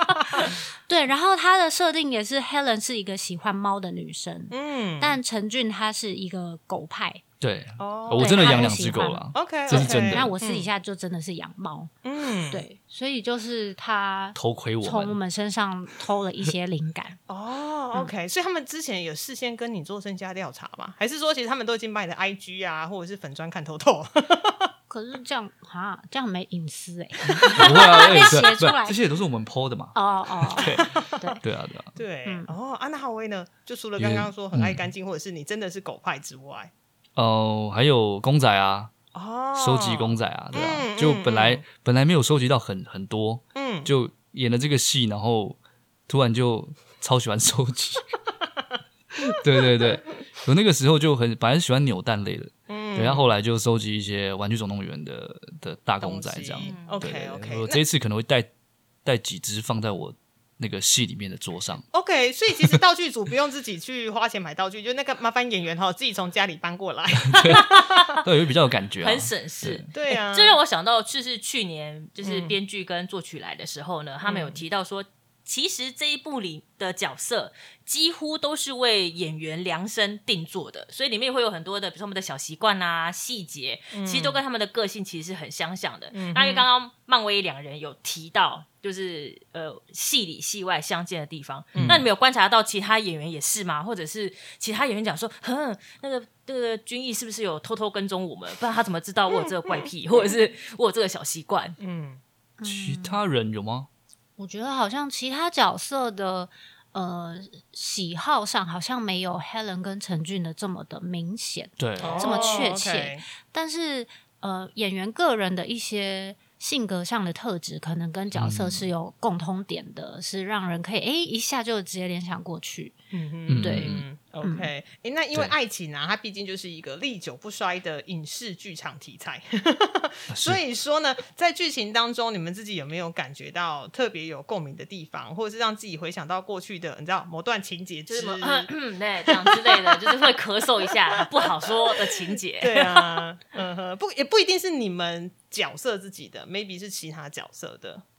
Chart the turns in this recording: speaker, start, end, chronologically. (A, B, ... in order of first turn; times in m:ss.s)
0:00.3-0:07.2 A
0:04.5-0:05.2 B
0:07.4-0:10.3 C
0:07.8-0:10.7 B
0:08.1-0:12.0 A
0:12.0-0:12.6 B
0:12.5-0:17.2 A
0:14.3-0:15.2 C
0:17.3-0:24.7 B
0:24.9-0:29.0 A
0:27.5-0:31.9 C
0:29.9-0:31.4 A
0:30.6-0:31.4 B
0:31.9-0:36.7 B
0:32.2-0:32.5 A
0:34.0-0:34.8 C
0:37.2-0:38.9 C
0:39.1-0:41.6 B
0:39.5-0:48.1 C
0:43.5-0:43.9 B
0:49.3-0:58.5 C
0:52.7-0:53.3 B
0:56.0-0:57.8 B
0:56.6-0:57.0 D
0:59.0-1:01.8 C
1:01.9-1:07.9 B
1:07.3-1:09.8 C
1:07.5-1:08.0 D
1:09.0-1:41.8 D
1:09.9-1:10.6 B
1:12.2-1:12.6 B
1:14.2-1:14.6 B
1:23.9-1:24.4 B
1:26.1-1:26.6 B
1:31.7-1:32.0 B
1:31.8-1:32.1 C
1:41.8-1:42.2 B
1:42.6-1:43.2 A
1:42.6-1:43.9 C
1:44.4-2:03.0 A
1:51.8-1:52.3 C
1:52.0-1:53.2 B
1:52.4-1:52.6 D
1:58.3-1:58.9 C
2:03.1-2:18.7 B
2:03.5-2:04.0 C
2:03.6-2:04.7 A
2:10.3-2:10.6 C
2:18.1-2:23.2 D
2:19.3-2:20.2 B
2:21.1-2:21.9 B
2:22.6-2:28.0 B